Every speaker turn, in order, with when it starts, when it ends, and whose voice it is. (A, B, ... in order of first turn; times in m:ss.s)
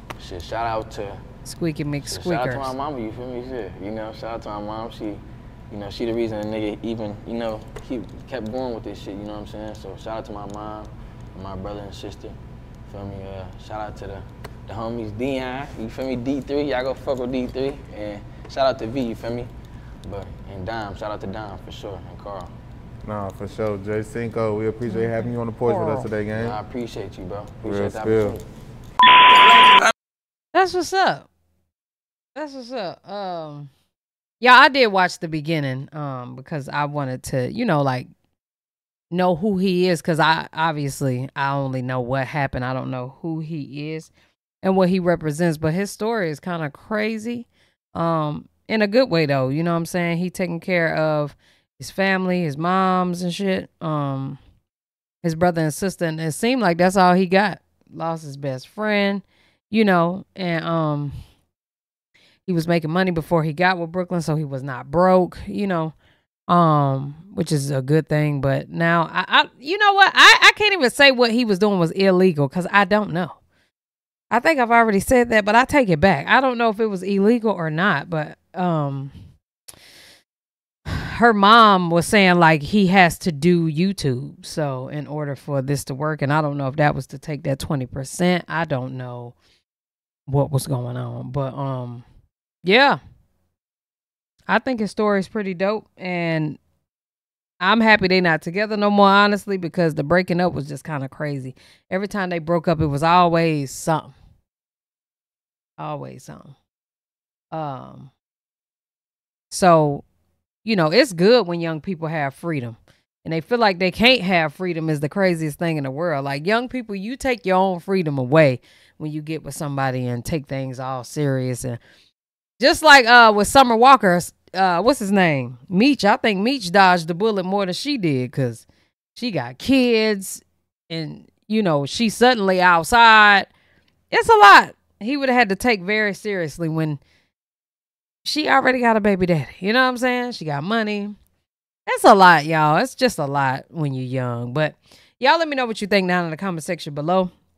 0:00.2-0:01.2 A
0:01.4-0:02.8 B
0:02.0-0:19.5 A
0:20.0-0:22.5 A
0:23.0-0:26.6 C
0:24.9-0:26.1 B
0:26.3-0:28.4 A
0:27.6-0:28.4 C
0:30.5-0:31.3 B
0:32.4-0:33.7 B
0:34.4-0:38.1 B
0:39.1-0:44.1 B
0:44.6-0:54.4 B
0:55.2-1:01.2 B
1:02.5-1:06.0 B
1:06.5-1:13.4 B
1:14.3-1:19.1 B
1:20.9-1:29.4 B
1:30.3-1:32.0 B
1:32.6-1:33.0 B
1:34.5-1:36.6 B
1:37.6-1:44.2 B
1:45.8-1:46.6 B
1:47.5-1:48.1 B
1:49.5-1:50.0 B
1:50.6-2:01.8 B
2:02.6-2:13.5 B
2:14.1-2:17.0 B
2:18.2-2:21.2 B
2:21.9-2:27.3 B